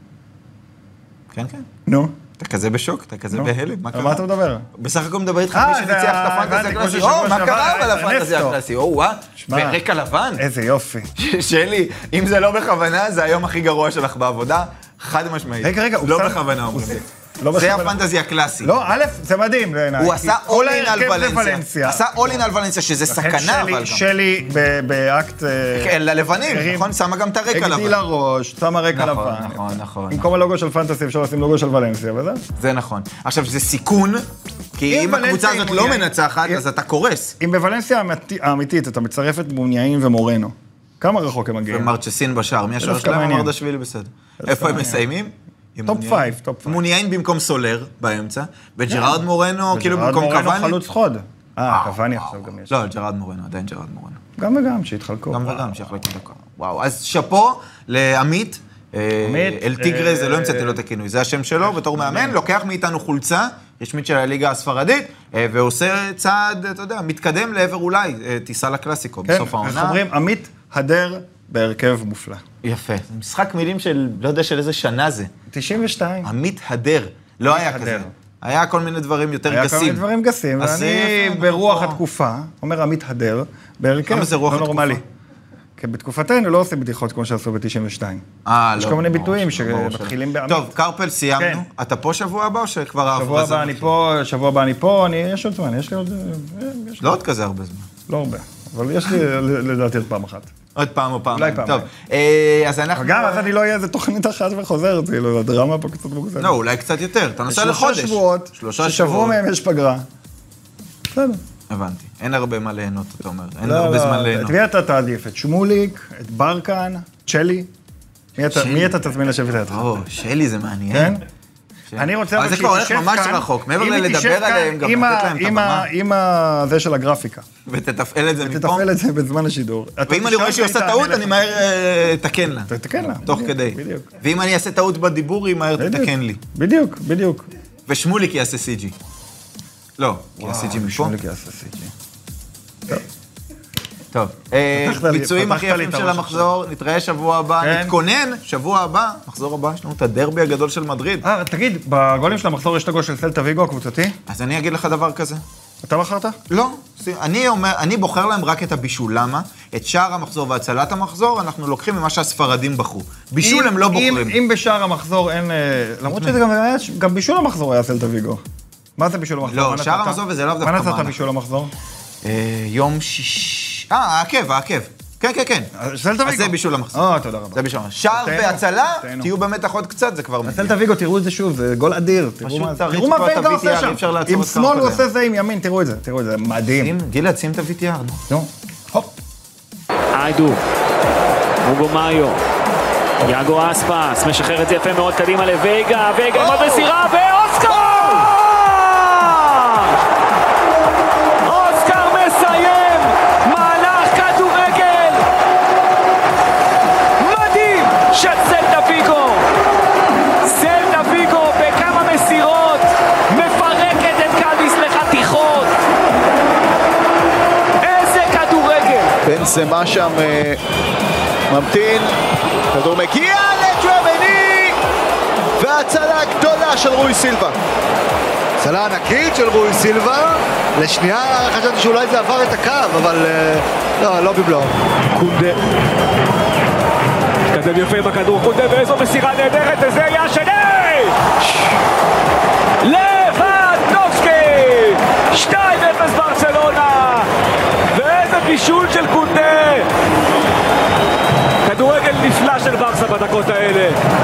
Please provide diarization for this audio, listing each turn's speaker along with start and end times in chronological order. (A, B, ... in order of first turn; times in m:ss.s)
0:01.3-0:01.7 A
0:01.9-0:02.2 B
0:02.4-0:10.4 A
0:03.3-0:04.7 B
0:05.5-0:08.6 B
0:09.4-0:09.8 B
0:10.4-0:11.1 B
0:11.2-0:18.7 A
0:15.6-0:18.0 B
0:18.6-0:22.5 B
0:20.0-0:24.0 A
0:23.1-0:26.9 B
0:25.7-0:28.0 A
0:27.5-0:32.4 B
0:28.9-0:30.3 A
0:32.6-0:37.3 A
0:34.9-0:36.6 B
0:37.4-0:41.9 B
0:41.7-0:50.8 A
0:42.8-0:43.5 B
0:44.4-0:45.0 B
0:45.8-0:46.8 B
0:48.9-0:49.2 B
0:49.7-0:52.8 B
0:51.7-0:54.2 A
0:54.4-0:55.7 B
0:55.3-1:10.0 A
0:59.2-1:00.8 B
1:01.7-1:02.4 B
1:09.3-1:12.4 B
1:12.6-1:15.3 A
1:15.5-1:16.3 B
1:16.2-1:20.0 A
1:17.5-1:18.1 B
1:19.4-1:25.0 B
1:20.6-1:22.0 A
1:24.1-1:25.0 A
1:25.8-1:28.2 B
1:28.4-1:33.9 A
1:28.8-1:30.7 B
1:31.4-1:31.6 B
1:33.1-1:37.2 B
1:37.0-1:37.9 A
1:38.1-1:40.5 B
1:40.7-1:43.5 A
1:41.3-1:41.9 B
1:42.9-1:46.6 B
1:46.4-1:49.4 A
1:47.5-1:50.0 B
1:51.1-1:51.4 B
1:51.7-1:54.5 A
1:53.6-1:57.7 B
1:58.4-1:59.9 B
1:58.5-1:59.0 A
1:59.7-2:01.2 A
2:00.9-2:01.2 B
2:01.9-2:05.9 A
2:02.0-2:07.4 B
2:07.6-2:08.9 A
2:08.4-2:11.4 B
2:10.1-2:16.4 A
2:12.7-2:14.1 B
2:15.8-2:17.5 B
2:17.9-2:18.9 A
2:20.0-2:21.1 A
2:20.4-2:21.9 B
2:24.1-2:31.2 A
2:24.7-2:26.5 B
2:27.6-2:27.9 B
2:31.2-2:34.2 B
2:34.3-2:35.4 A
2:35.8-2:36.4 B
2:36.5-2:44.4 A
2:43.4-2:48.4 B
2:46.1-2:46.4 A
2:49.0-2:51.7 B
2:49.4-2:51.2 A
2:52.2-2:55.7 A
2:55.8-2:59.3 B
2:56.2-3:00.7 A
3:00.4-3:07.0 B
3:02.4-3:05.0 A
3:06.8-3:08.2 A
3:08.3-3:09.1 B
3:10.1-3:10.6 C
3:11.6-3:12.4 C
3:13.2-3:20.0 C
3:21.4-3:25.2 C
3:27.2-3:29.4 C
3:30.4-3:35.7 C
3:37.8-3:39.1 C
3:39.2-3:40.6 D
3:41.5-3:42.1 D
3:42.7-3:44.8 D
3:45.6-3:47.6 D
3:48.6-3:55.4 D
3:55.2-3:55.6 C
3:57.5-4:01.6 C
4:02.8-4:07.3 C
4:07.9-4:09.9 C
4:11.6-4:14.0 C